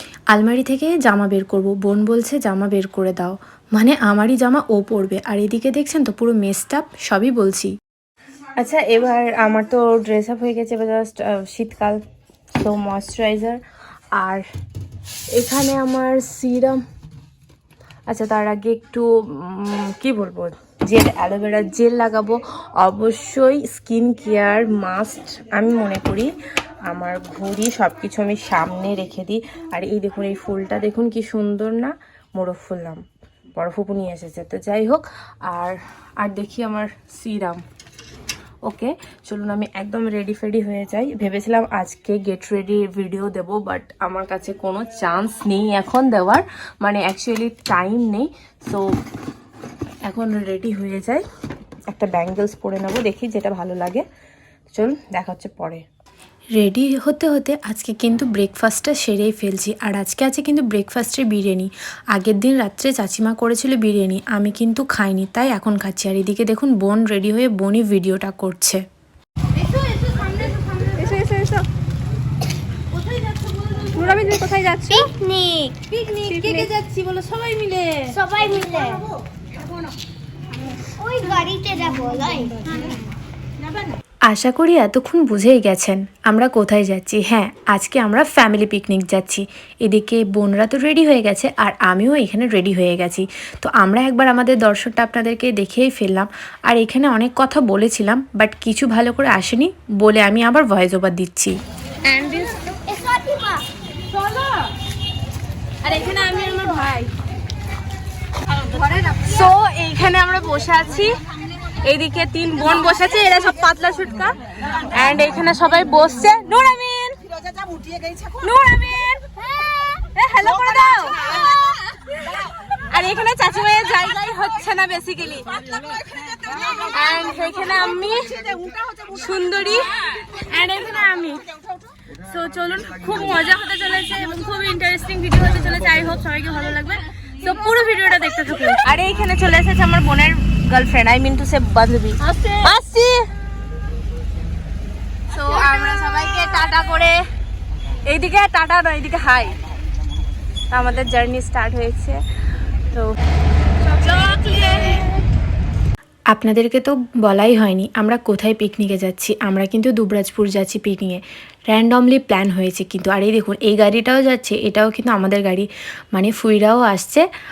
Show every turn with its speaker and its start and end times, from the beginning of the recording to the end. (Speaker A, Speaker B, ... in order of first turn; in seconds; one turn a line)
Speaker A: 0.3-7.7
Speaker A: 8.6-12.0
Speaker A: 12.6-13.6
Speaker A: 14.2-14.4
Speaker A: 15.3-16.8
Speaker A: 18.1-26.3
Speaker A: 26.9-33.0
Speaker A: 33.5-37.6
Speaker A: 38.6-48.9
Speaker A: 50.0-51.2
Speaker A: 51.9-54.0
Speaker A: 54.7-55.8
Speaker A: 56.5-68.8
Speaker B: 69.7-71.5
Speaker B: 73.8-75.0
Speaker C: 74.9-75.8
Speaker B: 75.9-78.2
Speaker C: 76.5-76.7
Speaker C: 78.1-79.0
Speaker C: 81.0-82.6
Speaker A: 84.3-101.5
Speaker B: 102.0-102.5
Speaker C: 102.7-103.7
Speaker B: 105.8-107.1
Speaker B: 108.7-111.2
Speaker B: 111.8-117.2
Speaker B: 118.4-119.2
Speaker C: 119.6-120.0
Speaker B: 120.1-121.5
Speaker B: 122.4-125.6
Speaker B: 126.7-128.4
Speaker B: 129.1-131.4
Speaker B: 132.2-143.3
Speaker B: 145.3-147.2
Speaker B: 148.0-149.6
Speaker B: 150.7-152.2
Speaker B: 153.9-155.1
Speaker A: 156.3-167.2